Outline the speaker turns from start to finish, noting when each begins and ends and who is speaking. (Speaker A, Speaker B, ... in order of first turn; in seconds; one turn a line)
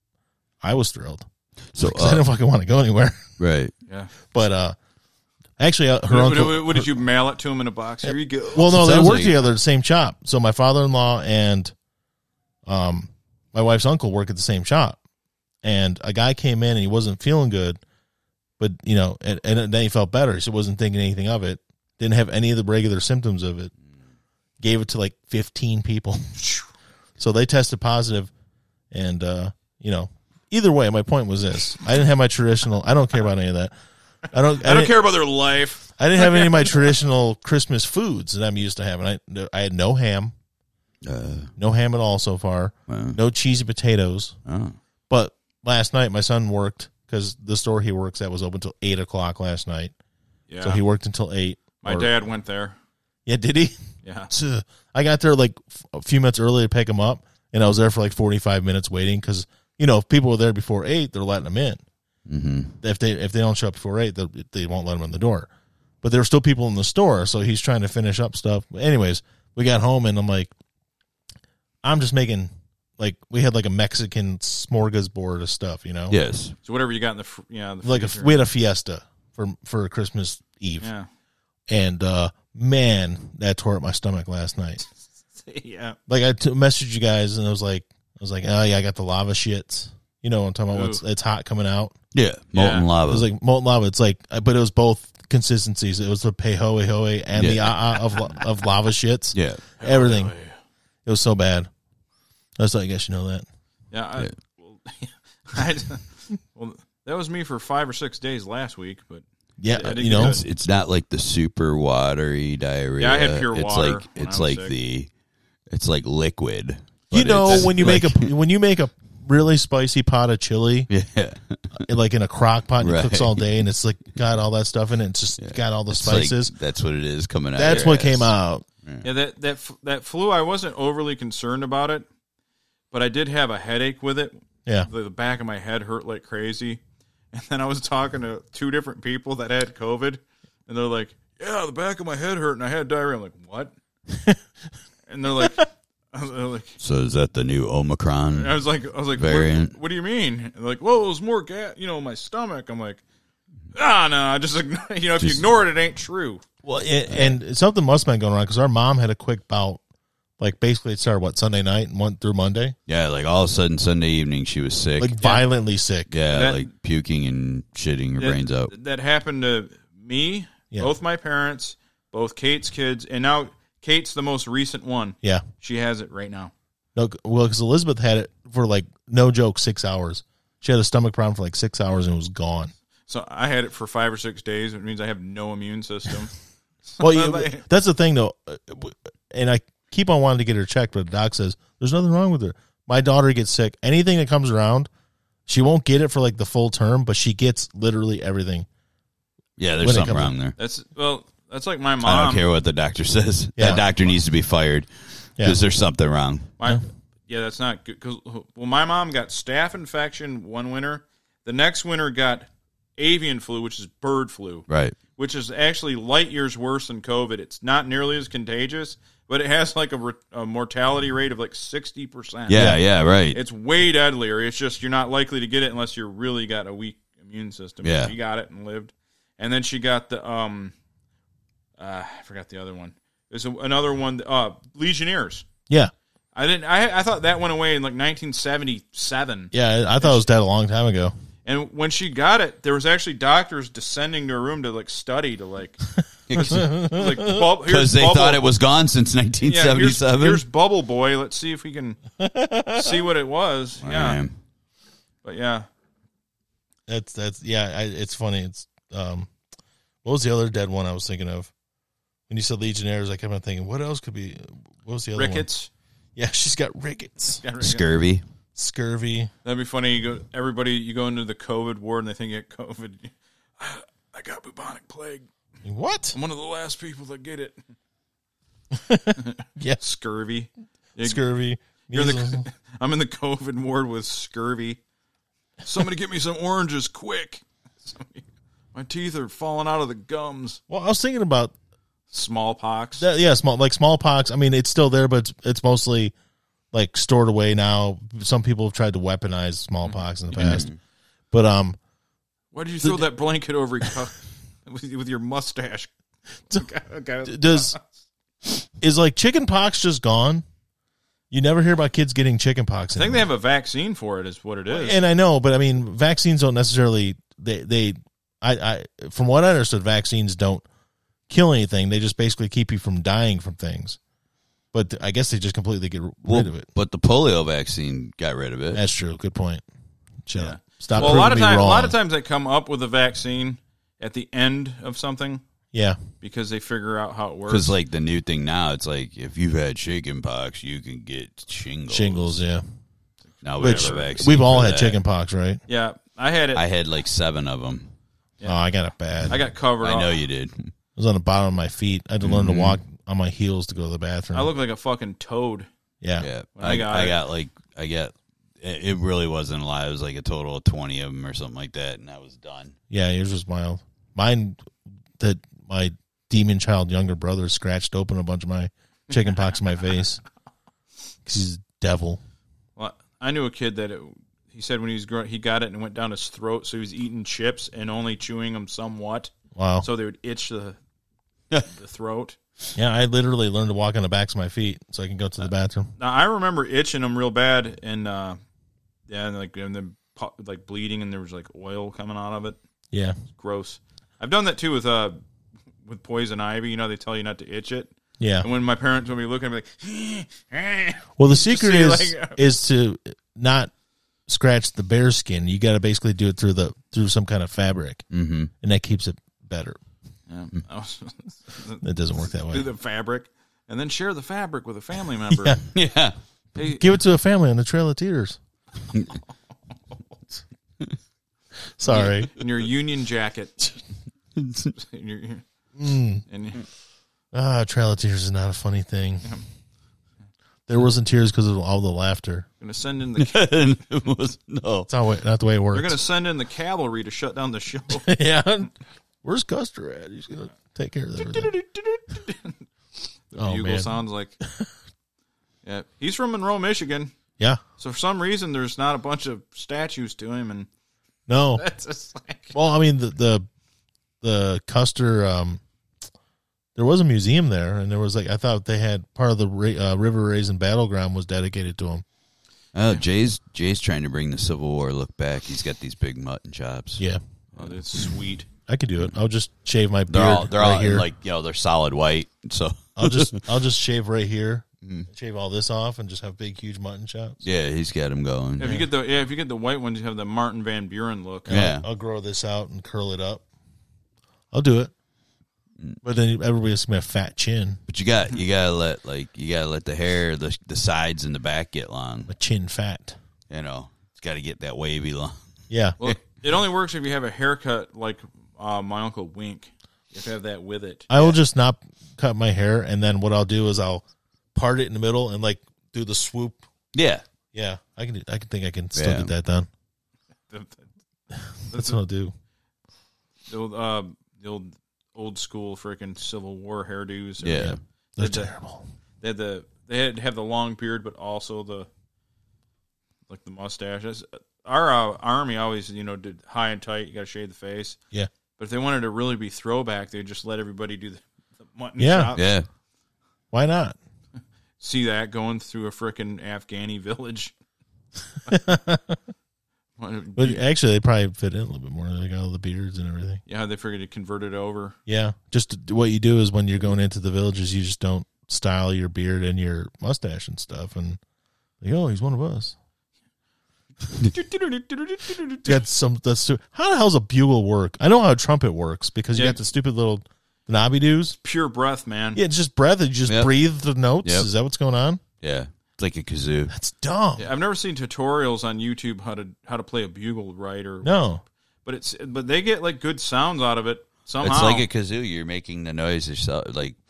Speaker A: 0.6-1.3
Speaker B: 1.7-2.2
Speaker A: 1.8-3.2
Speaker B: 3.4-3.7
Speaker A: 4.3-4.8
Speaker A: 5.6-7.0
Speaker C: 6.1-8.7
Speaker A: 8.0-11.7
Speaker B: 8.7-9.3
Speaker A: 12.7-15.0
Speaker A: 15.6-17.8
Speaker A: 18.6-23.7
Speaker A: 24.6-26.4
Speaker C: 26.4-26.7
Speaker A: 27.2-28.3
Speaker A: 28.9-33.7
Speaker A: 34.3-35.0
Speaker C: 34.6-36.8
Speaker A: 36.0-40.3
Speaker B: 41.0-41.5
Speaker A: 41.6-44.4
Speaker B: 42.9-43.2
Speaker B: 44.5-44.8
Speaker A: 45.1-49.9
Speaker C: 50.5-50.8
Speaker A: 50.6-52.1
Speaker C: 51.8-52.8
Speaker A: 53.3-61.8
Speaker C: 54.0-54.3
Speaker B: 62.3-62.8
Speaker A: 62.8-65.5
Speaker A: 66.0-70.5
Speaker A: 71.8-76.2
Speaker B: 76.1-76.5
Speaker C: 76.7-78.5
Speaker A: 77.8-80.9
Speaker C: 80.8-81.1
Speaker A: 81.7-84.8
Speaker C: 85.4-86.0
Speaker A: 86.1-92.0
Speaker C: 90.7-91.0
Speaker B: 92.1-93.3
Speaker C: 92.5-92.9
Speaker A: 93.1-100.3
Speaker B: 97.4-97.7
Speaker B: 99.3-99.6
Speaker C: 99.8-100.6
Speaker A: 101.0-101.7
Speaker A: 102.6-103.5
Speaker C: 103.9-110.4
Speaker A: 109.6-110.4
Speaker B: 109.9-115.1
Speaker C: 113.0-114.7
Speaker B: 115.7-118.3
Speaker A: 117.1-120.9
Speaker B: 120.9-121.8
Speaker A: 121.8-126.5
Speaker B: 122.8-123.4
Speaker B: 125.4-129.1
Speaker A: 127.6-128.7
Speaker C: 129.0-132.1
Speaker C: 132.9-136.8
Speaker C: 137.3-143.7
Speaker A: 144.1-144.4
Speaker C: 145.1-146.8
Speaker B: 146.8-148.6
Speaker C: 148.3-153.0
Speaker B: 149.2-149.8
Speaker C: 153.7-156.4
Speaker B: 155.2-155.5
Speaker A: 156.7-159.8
Speaker B: 157.1-157.3
Speaker A: 160.4-162.8
Speaker B: 162.9-165.2
Speaker A: 165.0-166.1
Speaker B: 166.1-168.7
Speaker C: 166.3-166.7
Speaker C: 168.2-176.5
Speaker A: 177.0-182.7
Speaker C: 183.1-186.3
Speaker C: 186.9-187.7
Speaker A: 187.0-194.9
Speaker A: 195.5-198.7
Speaker B: 199.6-200.6
Speaker A: 199.8-200.3
Speaker C: 200.6-202.4
Speaker B: 202.0-206.5
Speaker A: 203.6-203.8
Speaker C: 206.6-214.7
Speaker B: 214.7-215.0
Speaker C: 215.2-222.7
Speaker B: 222.5-223.4
Speaker A: 222.5-222.8
Speaker C: 223.3-230.7
Speaker B: 227.8-228.1
Speaker C: 231.8-235.5
Speaker C: 236.3-240.3
Speaker A: 239.5-241.1
Speaker C: 241.4-245.8
Speaker B: 246.3-246.7
Speaker C: 246.4-248.4
Speaker A: 246.4-247.4
Speaker B: 247.7-250.4
Speaker C: 249.4-252.0
Speaker A: 252.2-253.0
Speaker C: 252.8-254.2
Speaker B: 253.8-254.3
Speaker C: 255.2-255.7
Speaker A: 256.9-259.3
Speaker A: 260.0-261.5
Speaker A: 262.3-265.5
Speaker C: 265.1-265.7
Speaker A: 266.2-267.4
Speaker C: 267.4-267.9
Speaker B: 267.6-268.2
Speaker A: 268.6-269.3
Speaker C: 269.4-275.3
Speaker A: 275.6-276.2
Speaker C: 276.1-277.6
Speaker A: 278.7-279.8
Speaker C: 279.2-281.2
Speaker A: 281.0-282.5
Speaker C: 281.9-284.8
Speaker C: 285.6-290.6
Speaker A: 290.7-291.5
Speaker C: 292.1-293.1
Speaker A: 293.0-296.1
Speaker A: 296.7-300.7
Speaker C: 299.9-300.6
Speaker B: 300.3-300.8
Speaker A: 301.3-301.8
Speaker C: 302.5-305.9
Speaker C: 306.5-307.8
Speaker A: 307.2-307.8
Speaker A: 308.8-310.4
Speaker A: 311.3-313.3
Speaker C: 313.0-315.0
Speaker A: 314.7-320.6
Speaker A: 321.3-324.0
Speaker A: 324.7-326.7
Speaker B: 326.2-328.8
Speaker A: 328.7-329.6
Speaker A: 330.3-332.0
Speaker C: 330.4-335.4
Speaker B: 330.9-331.3
Speaker A: 335.7-336.0
Speaker C: 336.2-337.8
Speaker B: 337.5-342.4
Speaker A: 341.9-342.6
Speaker C: 343.4-344.1
Speaker B: 343.4-345.0
Speaker A: 343.6-345.6
Speaker C: 345.7-346.6
Speaker B: 346.6-347.9
Speaker A: 348.4-349.4
Speaker C: 349.3-350.2
Speaker B: 349.8-350.7
Speaker A: 351.0-354.5
Speaker B: 352.2-352.8
Speaker C: 354.3-355.7
Speaker A: 356.0-356.3
Speaker B: 356.2-362.8
Speaker C: 356.6-357.2
Speaker A: 362.9-364.6
Speaker A: 365.2-370.2
Speaker A: 371.2-372.2
Speaker C: 372.8-380.8
Speaker A: 379.6-379.9
Speaker C: 381.6-382.4
Speaker A: 382.8-385.9
Speaker C: 386.0-388.4
Speaker C: 389.1-392.6
Speaker A: 392.9-393.2
Speaker C: 393.3-395.2
Speaker C: 395.8-402.4
Speaker A: 398.2-398.5
Speaker A: 401.2-403.7
Speaker A: 404.3-408.1
Speaker B: 408.1-408.5
Speaker A: 408.6-409.8
Speaker C: 410.3-411.9
Speaker A: 411.8-412.7
Speaker C: 412.5-415.6
Speaker A: 415.3-415.6
Speaker B: 415.7-416.1
Speaker C: 416.6-416.9
Speaker A: 416.6-418.4
Speaker A: 421.8-422.3
Speaker C: 421.9-423.7
Speaker B: 424.4-424.7
Speaker C: 424.8-425.4
Speaker A: 425.8-426.2
Speaker C: 426.3-426.6
Speaker A: 427.3-429.4
Speaker A: 430.7-432.5
Speaker C: 432.6-433.4
Speaker B: 433.2-434.9
Speaker A: 434.9-436.0
Speaker C: 435.7-438.1
Speaker A: 437.9-438.7
Speaker A: 439.2-441.5
Speaker C: 441.2-442.6
Speaker C: 443.3-444.4
Speaker A: 443.4-444.7
Speaker C: 445.6-447.1
Speaker C: 447.8-450.7
Speaker A: 451.3-451.6
Speaker C: 451.6-452.6
Speaker A: 452.5-453.5
Speaker A: 454.2-455.6
Speaker A: 456.8-462.0
Speaker B: 462.7-467.1
Speaker C: 467.6-468.5
Speaker A: 468.7-471.1
Speaker B: 470.1-473.4
Speaker A: 473.0-477.4
Speaker B: 474.8-475.1
Speaker B: 477.4-478.8
Speaker C: 478.6-481.6
Speaker A: 481.5-483.4
Speaker B: 481.5-481.9
Speaker A: 484.5-484.9
Speaker A: 486.0-487.8
Speaker B: 487.9-492.3
Speaker A: 492.3-493.2
Speaker B: 493.5-495.4
Speaker A: 495.7-496.0
Speaker C: 496.0-501.1
Speaker A: 501.1-504.0
Speaker A: 504.6-506.6
Speaker B: 506.9-507.2
Speaker A: 507.5-509.7
Speaker B: 508.9-509.3
Speaker C: 510.5-510.9
Speaker A: 511.3-512.3
Speaker C: 511.7-512.0
Speaker C: 513.5-518.5
Speaker B: 517.4-517.8
Speaker A: 517.6-518.9
Speaker C: 519.2-521.9
Speaker C: 523.3-528.0
Speaker C: 528.6-532.5
Speaker A: 532.0-532.3
Speaker B: 532.4-532.7
Speaker A: 533.5-534.0
Speaker C: 534.8-537.5
Speaker A: 538.5-539.2
Speaker C: 540.0-540.6
Speaker A: 540.4-543.4
Speaker C: 543.5-545.0
Speaker A: 545.1-551.2
Speaker A: 551.8-552.8
Speaker C: 554.2-555.8
Speaker A: 555.6-561.4
Speaker C: 561.4-562.4
Speaker A: 562.3-565.2
Speaker B: 563.3-563.5
Speaker B: 565.4-566.7
Speaker A: 566.7-567.5
Speaker C: 567.4-571.2
Speaker A: 571.0-571.4
Speaker C: 571.9-574.9
Speaker B: 574.4-577.0